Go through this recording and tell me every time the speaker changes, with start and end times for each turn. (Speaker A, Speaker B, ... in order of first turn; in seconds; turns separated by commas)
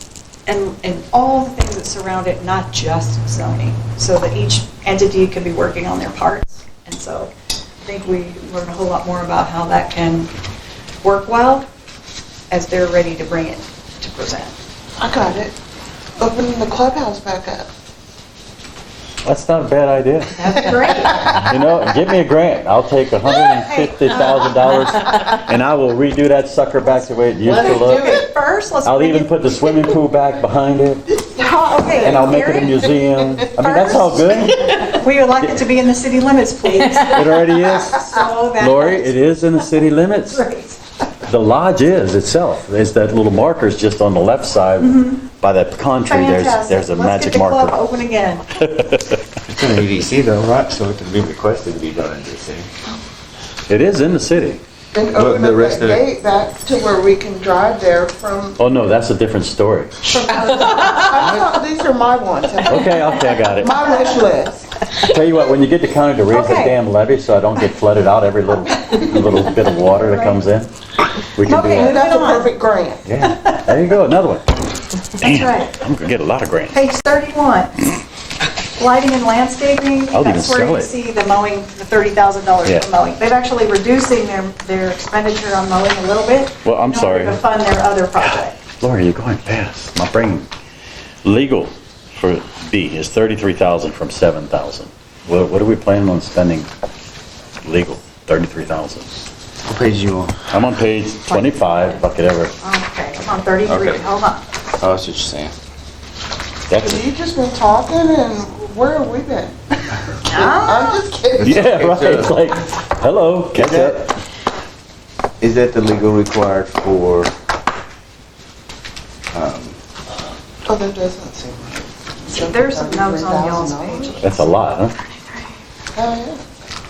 Speaker A: 0.5-10.3, Speaker A: 11.0-11.7, Speaker A: 12.5-14.6, Speaker B: 15.0-15.5, Speaker B: 16.2-17.7, Speaker C: 19.2-20.7, Speaker A: 20.3-21.4, Speaker B: 20.6-21.3, Speaker C: 21.3-28.2, Speaker A: 23.4-24.5, Speaker B: 27.4-28.2, Speaker A: 27.4-29.4, Speaker C: 28.8-31.0, Speaker B: 31.1-32.9, Speaker A: 31.7-32.9, Speaker C: 32.0-35.6, Speaker A: 33.6-39.5, Speaker C: 37.0-40.4, Speaker A: 40.3-40.8, Speaker C: 41.2-47.8, Speaker A: 44.8-45.2, Speaker A: 46.0-48.6, Speaker C: 48.6-49.2, Speaker D: 49.5-52.7, Speaker C: 53.7-54.6, Speaker B: 54.9-58.6, Speaker D: 55.1-56.0, Speaker C: 58.6-60.1, Speaker B: 60.1-64.7, Speaker A: 60.2-60.9, Speaker C: 62.7-63.8, Speaker C: 65.0-70.7, Speaker A: 66.3-66.8, Speaker A: 70.0-70.4, Speaker C: 71.3-72.0, Speaker A: 71.4-72.5, Speaker B: 71.7-73.0, Speaker C: 73.0-74.5, Speaker A: 73.2-73.7, Speaker A: 75.2-75.8, Speaker C: 75.2-76.8, Speaker A: 76.7-77.9, Speaker A: 78.7-88.6, Speaker C: 80.1-80.9, Speaker C: 86.6-87.4, Speaker C: 88.2-90.5, Speaker C: 91.2-96.7, Speaker C: 97.6-99.1, Speaker D: 99.7-100.4, Speaker C: 100.5-102.5, Speaker A: 102.6-104.4, Speaker D: 103.7-104.0, Speaker D: 104.8-105.5, Speaker C: 106.7-107.0, Speaker B: 106.8-111.6, Speaker A: 110.2-111.0, Speaker D: 111.4-112.4, Speaker C: 111.4-114.1, Speaker D: 113.5-114.0, Speaker D: 115.4-117.3, Speaker D: 119.3-119.8, Speaker B: 120.6-124.2, Speaker A: 122.3-125.6, Speaker C: 124.2-124.9, Speaker B: 125.9-126.4